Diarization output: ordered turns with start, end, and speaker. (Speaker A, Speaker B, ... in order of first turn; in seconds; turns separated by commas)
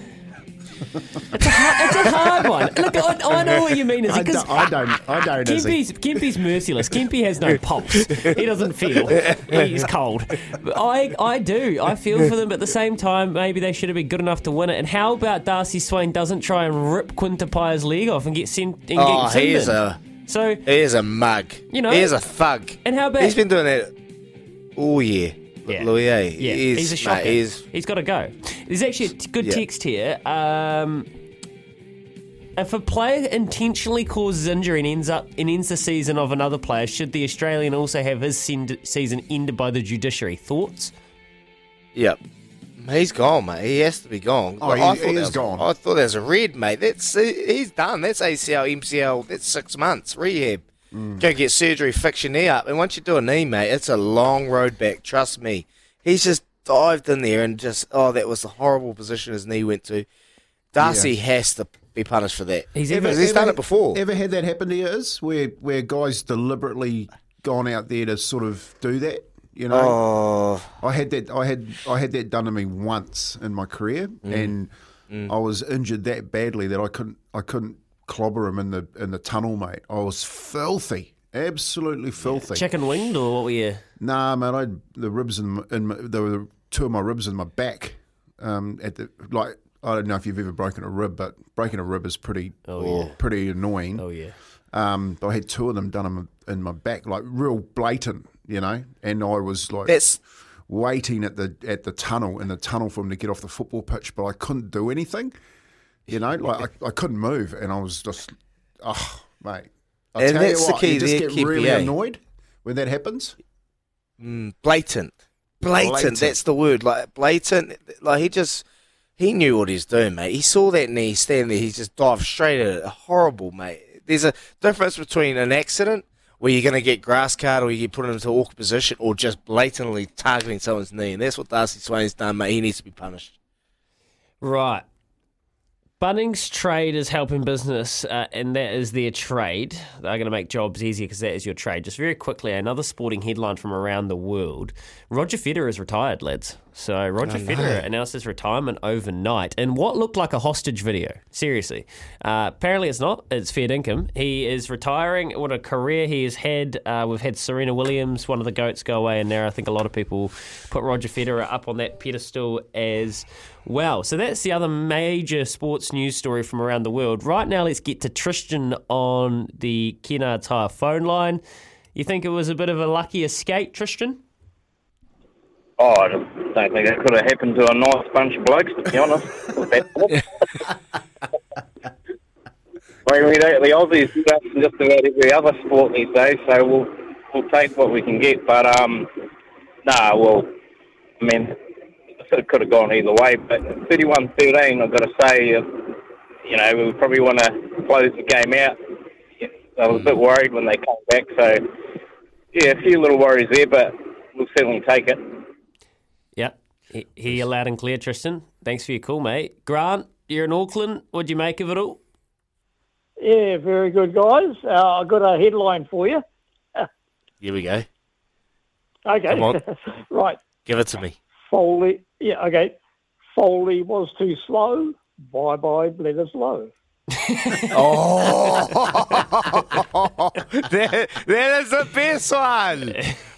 Speaker A: 1.3-4.7, Speaker B: 4.1-5.8, Speaker A: 5.4-20.6, Speaker C: 9.1-9.8, Speaker C: 19.0-20.0, Speaker C: 20.6-23.9, Speaker A: 21.7-22.2, Speaker A: 22.8-23.4, Speaker C: 24.8-27.6, Speaker A: 25.7-31.1, Speaker A: 32.6-40.9, Speaker C: 42.8-50.6, Speaker B: 44.6-45.7, Speaker B: 50.9-51.3, Speaker C: 51.2-60.1, Speaker C: 60.7-64.0, Speaker B: 60.8-61.1, Speaker A: 62.7-63.2, Speaker B: 62.9-70.0, Speaker C: 69.7-70.7, Speaker B: 70.8-74.7, Speaker C: 74.2-74.5, Speaker B: 75.2-82.7, Speaker A: 82.3-83.8, Speaker B: 84.0-94.1, Speaker A: 92.7-93.1, Speaker C: 92.8-93.1, Speaker A: 94.0-94.4, Speaker B: 94.7-100.2, Speaker C: 99.9-100.2, Speaker B: 100.7-105.3, Speaker B: 106.1-113.4, Speaker C: 110.2-111.9, Speaker C: 114.2-118.6, Speaker B: 115.8-116.4, Speaker C: 119.2-133.4, Speaker A: 134.4-134.8, Speaker A: 136.0-171.4, Speaker C: 147.2-147.8, Speaker A: 171.9-174.2, Speaker D: 175.8-180.6, Speaker D: 183.1-189.1, Speaker D: 189.8-190.5, Speaker D: 191.2-191.6, Speaker D: 192.2-198.8, Speaker D: 199.4-201.7, Speaker D: 202.5-205.4, Speaker A: 206.4-212.0, Speaker E: 213.2-216.2, Speaker C: 217.4-217.9, Speaker E: 219.1-220.4, Speaker C: 219.3-219.6, Speaker C: 220.7-221.2, Speaker E: 221.5-222.8, Speaker E: 223.3-226.7, Speaker A: 227.3-227.8, Speaker C: 227.7-233.0